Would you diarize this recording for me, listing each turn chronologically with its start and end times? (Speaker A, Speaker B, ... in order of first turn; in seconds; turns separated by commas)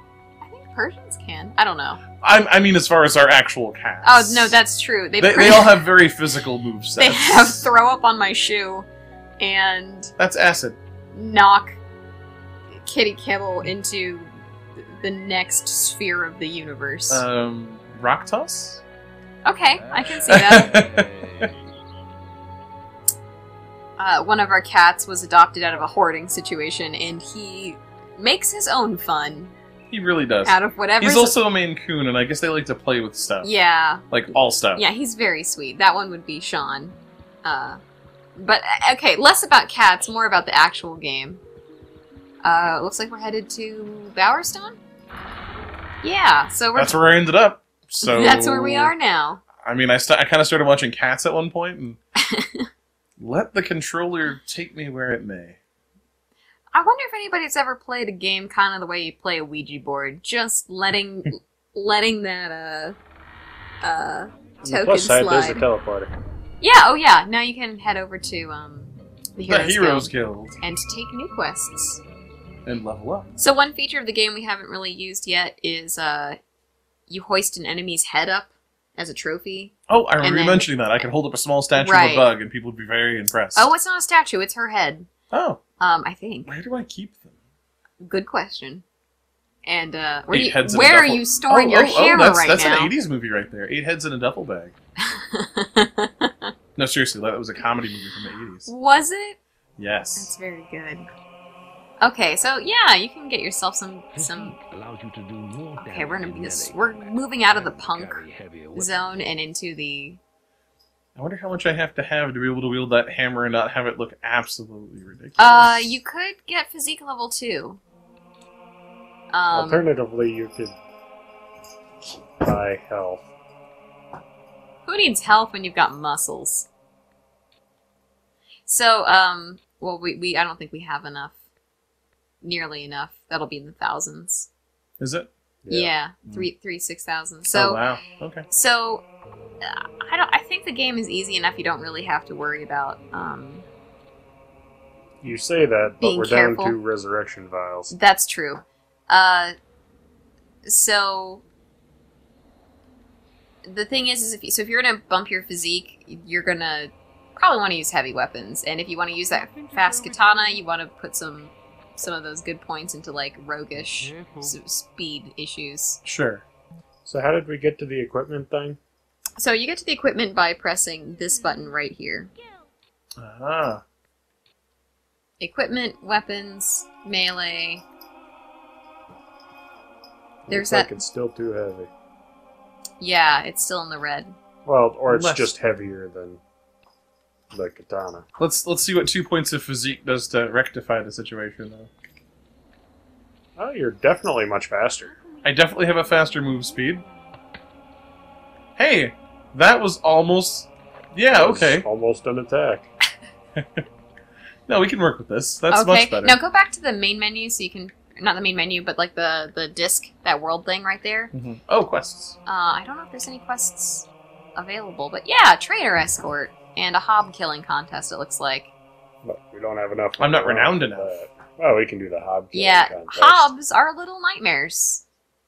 Speaker A: 0.4-2.0, Speaker B: 2.2-4.6, Speaker A: 4.0-5.9, Speaker B: 5.2-7.7, Speaker A: 7.0-8.9, Speaker A: 9.4-10.1, Speaker B: 10.2-10.8, Speaker A: 11.1-11.8, Speaker A: 12.7-17.2, Speaker B: 17.1-18.8, Speaker A: 19.4-20.8, Speaker C: 19.8-21.6, Speaker B: 20.1-21.5, Speaker A: 24.0-29.5, Speaker B: 29.9-33.5, Speaker A: 30.4-31.4, Speaker A: 33.4-34.1, Speaker B: 34.1-34.8, Speaker A: 34.7-37.8, Speaker A: 38.4-41.4, Speaker A: 42.4-44.8, Speaker A: 46.0-47.0, Speaker B: 46.7-48.9, Speaker A: 48.0-49.4, Speaker B: 49.6-52.0, Speaker A: 52.3-52.7, Speaker B: 53.2-55.6, Speaker A: 56.7-63.0, Speaker A: 63.8-65.6, Speaker D: 64.6-66.1, Speaker A: 66.6-72.0, Speaker B: 69.4-70.5, Speaker B: 72.7-73.3, Speaker A: 73.4-76.4, Speaker A: 77.1-80.8, Speaker B: 79.9-83.7, Speaker A: 81.8-82.3, Speaker A: 83.5-85.1, Speaker B: 85.3-85.6, Speaker A: 85.8-86.5, Speaker B: 86.5-87.3, Speaker A: 88.0-88.8, Speaker A: 89.6-92.9, Speaker B: 90.3-94.7, Speaker A: 95.1-96.5, Speaker B: 96.8-98.7, Speaker A: 98.7-99.4, Speaker B: 99.8-100.3, Speaker A: 100.2-101.1, Speaker A: 102.0-104.6, Speaker C: 104.1-109.1, Speaker A: 105.8-110.2, Speaker B: 111.2-115.9, Speaker A: 115.4-117.8, Speaker A: 119.3-119.8, Speaker D: 119.5-120.8, Speaker D: 122.4-123.3, Speaker A: 124.8-126.7, Speaker A: 128.7-131.3, Speaker A: 132.4-134.5, Speaker B: 135.0-135.3, Speaker D: 135.6-135.9, Speaker A: 135.7-137.8, Speaker B: 137.5-138.4, Speaker A: 138.5-139.1, Speaker A: 139.6-143.7, Speaker D: 145.2-147.9, Speaker A: 146.0-146.8, Speaker A: 147.9-149.5, Speaker A: 150.7-151.4, Speaker A: 153.6-166.0, Speaker C: 159.4-160.3, Speaker C: 164.2-164.5, Speaker B: 166.0-166.4, Speaker D: 167.0-168.8, Speaker A: 169.4-172.3, Speaker B: 173.2-173.8, Speaker A: 175.4-177.8, Speaker D: 180.4-181.9, Speaker A: 180.5-180.9, Speaker A: 183.0-184.3, Speaker D: 184.6-186.4, Speaker B: 185.1-185.5, Speaker D: 187.5-188.2, Speaker B: 188.4-191.9, Speaker D: 193.6-195.1, Speaker B: 195.4-197.0, Speaker B: 198.8-201.8, Speaker D: 201.3-202.9, Speaker B: 203.6-203.8, Speaker B: 204.7-206.4, Speaker A: 205.7-211.3, Speaker B: 211.3-212.4, Speaker A: 212.4-218.7, Speaker D: 219.2-223.5, Speaker B: 220.2-221.2, Speaker A: 222.5-225.0